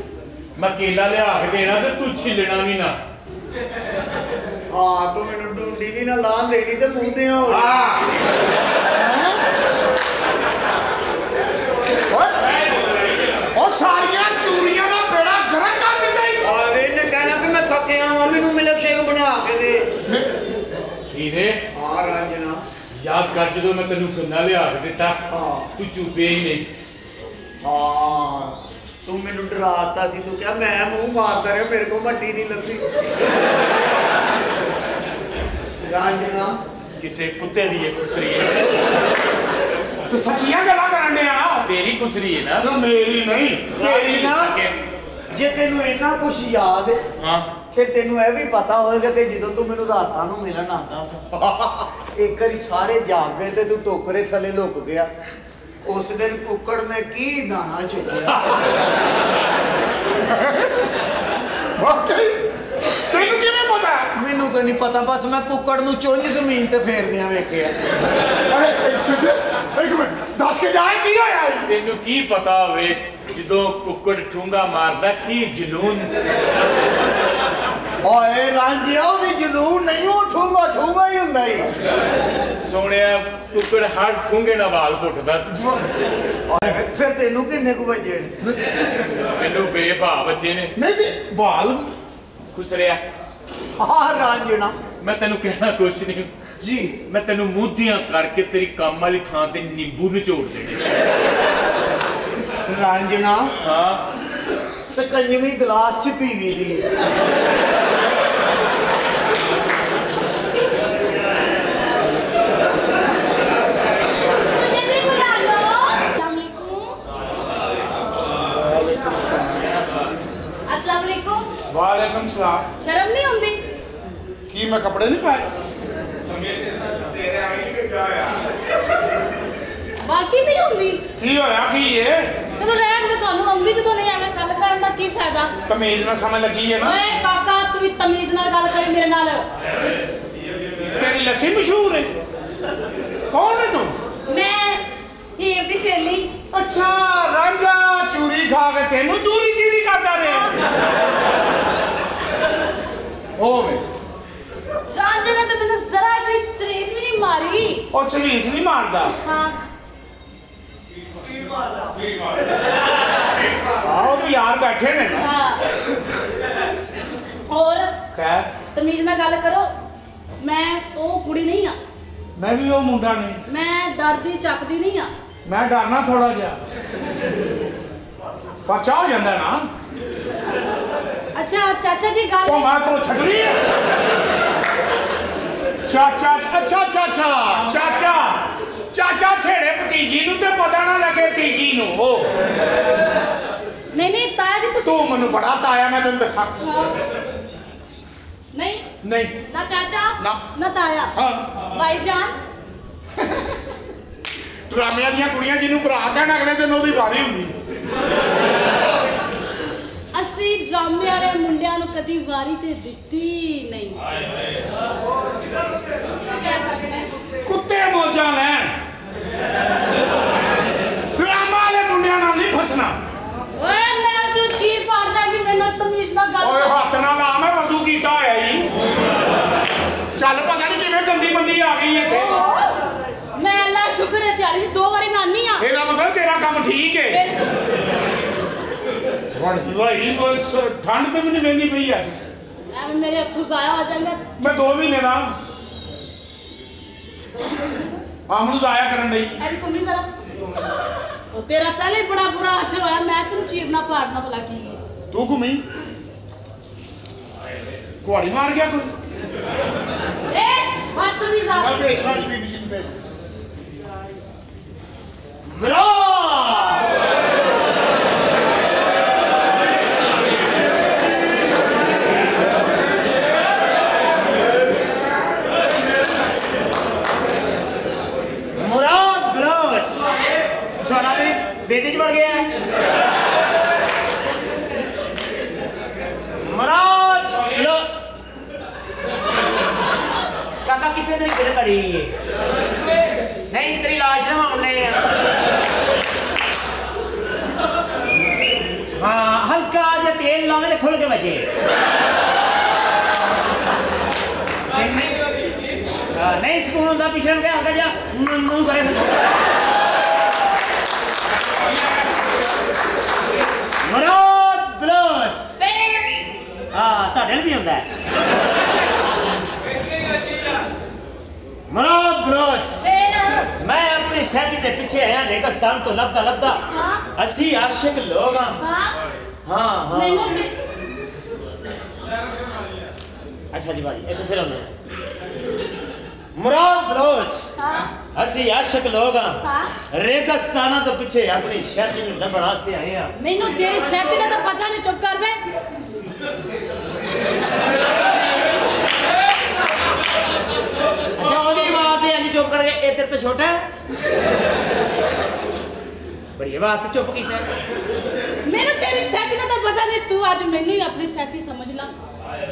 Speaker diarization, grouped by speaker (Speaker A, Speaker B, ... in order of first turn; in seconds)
Speaker A: 0.6-3.0, 7.5-7.9, 21.1-21.6, 23.0-25.2, 25.8-26.7, 37.0-38.6, 41.6-42.7, 43.8-44.8, 47.2-47.5, 51.4-51.8, 71.7-76.1, 82.6-85.6, 89.3-90.7, 92.5-93.0, 95.0-96.3, 97.1-100.9, 103.6-104.0
Speaker B: 4.7-7.9, 16.4-19.9, 21.7-22.6, 25.3-25.6, 27.6-32.8, 35.9-36.6, 43.8-44.5, 45.3-47.0, 47.7-51.2, 52.1-55.1, 55.8-58.4, 64.2-67.7, 78.0-81.7, 86.5-88.4, 93.8-94.8, 96.6-96.9, 102.7-103.5, 104.8-106.8
Speaker C: 9.0-9.4, 12.1-12.4, 13.5-16.4, 40.0-41.7, 42.6-44.2, 61.8-62.3, 63.1-64.1, 68.5-71.7, 90.8-91.9, 118.8-119.2, 121.7-122.6, 124.5-125.5, 131.2-132.3, 135.7-137.0, 141.0-142.1, 143.3-143.9, 146.5-150.5, 153.4-153.8, 157.9-159.1, 163.8-165.2, 168.1-168.5, 172.4-173.4, 175.4-176.6, 178.7-179.7, 182.4-183.6, 185.9-188.4, 188.9-192.3, 194.8-196.5, 199.0-199.3, 201.2-201.4, 204.7-207.5, 217.4-218.7, 221.2-222.9, 226.4-228.7, 230.2-232.3, 235.6-237.2, 239.3-242.2, 244.4-245.3, 248.3-249.3, 255.1-255.6, 258.0-258.9, 261.5-262.9
Speaker D: 114.5-116.9, 120.7-121.5, 122.8-123.6, 130.0-131.0, 132.6-135.5, 136.8-139.4, 144.3-144.8, 145.4-146.3, 154.9-157.8, 159.2-159.6, 165.2-165.6, 167.5-168.0, 168.7-169.7, 170.4-171.8, 173.5-175.1, 181.3-182.7, 193.9-195.1, 196.6-197.0, 198.5-198.8, 199.5-201.1, 201.7-202.3, 210.1-214.0, 216.2-217.1, 223.6-226.8, 232.1-232.8, 233.3-235.7, 237.1-237.4, 242.7-244.2, 249.4-250.1, 251.3-254.8, 260.3-262.2, 315.6-316.2, 322.8-323.5, 326.7-327.0, 328.6-328.9, 329.9-330.5, 337.6-337.9, 339.4-339.7, 343.2-345.4, 358.4-361.9
Speaker E: 265.6-266.7, 278.6-280.2, 280.8-282.5, 286.4-287.9, 290.6-292.1, 293.5-295.1, 299.0-301.4, 304.7-305.2, 306.1-309.3, 313.8-315.5, 316.7-317.9, 321.7-322.8, 323.6-326.6, 327.1-328.6, 329.4-330.3, 333.5-334.7, 336.3-337.5, 338.1-343.1, 351.2-353.6, 356.4-357.5